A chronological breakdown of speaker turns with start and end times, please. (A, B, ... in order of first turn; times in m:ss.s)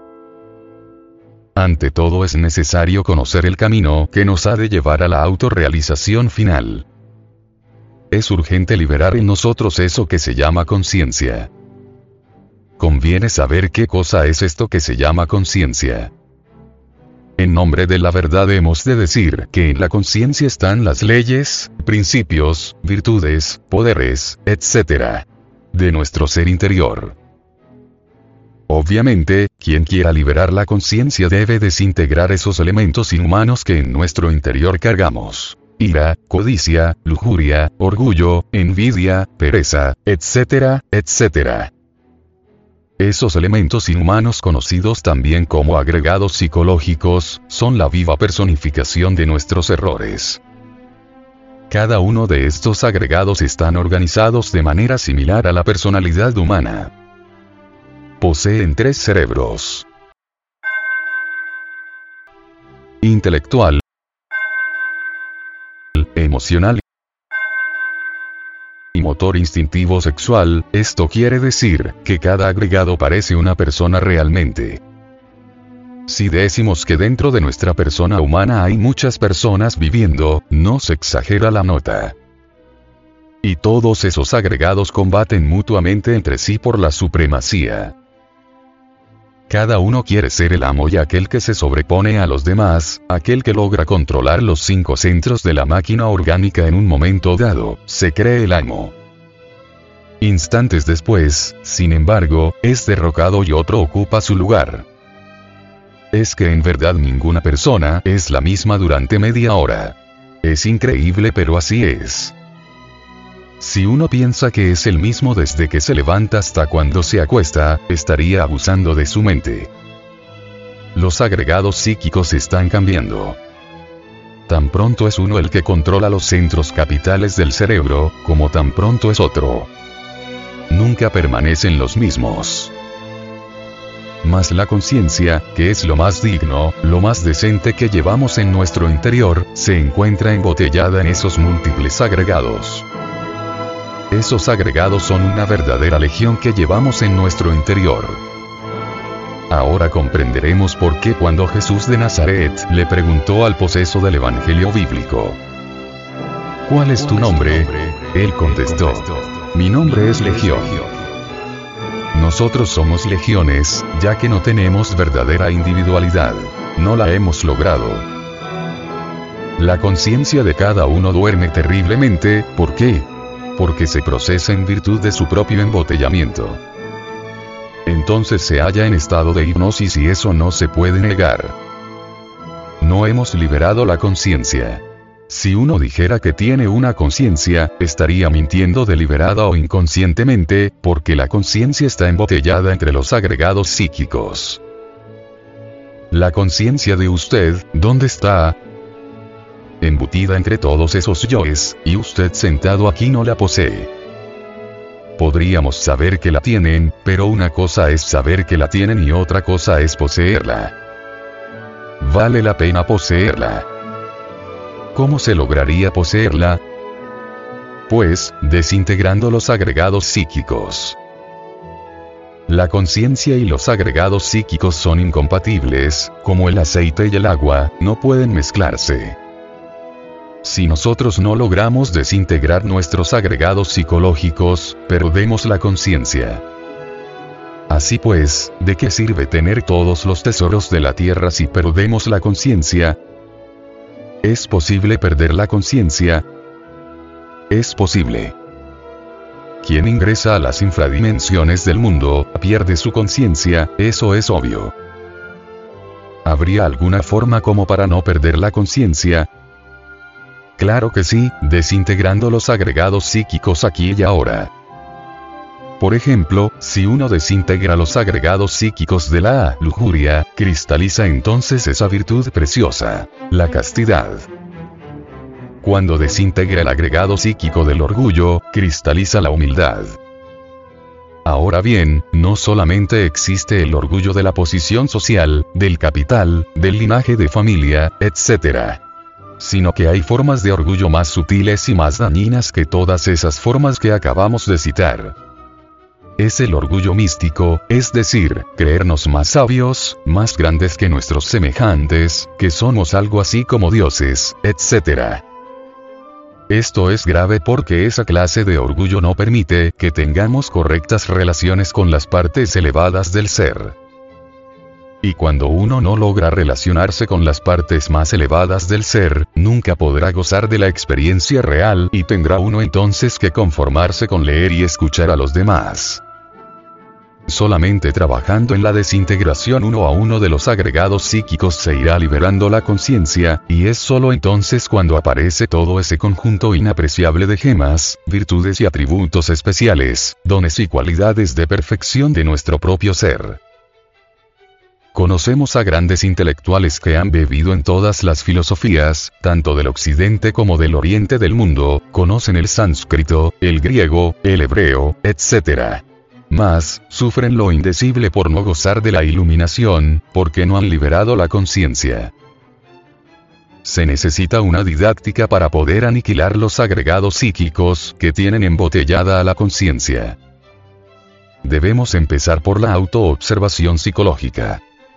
0:01.6-0:06.9 A
0:08.1-0:11.5 A
0:12.8-0:16.1 A
0:17.4-0:27.2 A
0:28.7-0:41.7 A
0:43.0-0:50.4 A
0:51.7-0:56.9 A
0:58.2-0:59.9 A
1:03.0-1:03.8 A
1:05.9-1:06.8 A
1:08.9-1:14.8 A
1:16.1-1:22.2 A
1:23.4-1:28.0 A
1:29.5-1:39.0 A
1:40.2-1:44.9 A
1:46.1-1:52.4 A
1:53.6-1:59.7 A
2:00.9-2:03.4 A
2:04.5-2:09.7 A
2:10.7-2:12.7 A
2:14.2-2:22.9 A
2:24.1-2:28.2 A
2:29.5-2:35.4 A
2:36.7-2:41.0 A
2:42.1-2:48.1 A
2:49.6-2:56.6 A
2:57.9-3:01.6 A
3:02.8-3:14.6 A
3:16.1-3:18.6 A
3:19.8-3:23.9 A
3:25.2-3:30.8 A
3:32.0-3:33.7 A
3:34.9-3:36.6 A
3:37.9-3:41.0 A
3:42.5-3:49.2 A
3:50.4-3:56.4 A
3:57.7-4:03.0 A
4:04.2-4:06.3 A
4:07.5-4:08.4 A
4:09.6-4:14.7 A
4:16.2-4:19.3 A
4:20.6-4:24.5 A
4:25.8-4:34.3 A
4:35.6-4:40.0 A
4:41.2-4:48.8 A
4:49.4-4:55.2 A
4:56.2-5:05.2 A
5:06.5-5:13.8 A
5:15.0-5:26.0 A
5:27.3-5:43.4 A
5:44.9-6:02.1 A
6:03.6-6:10.2 A
6:11.4-6:14.6 A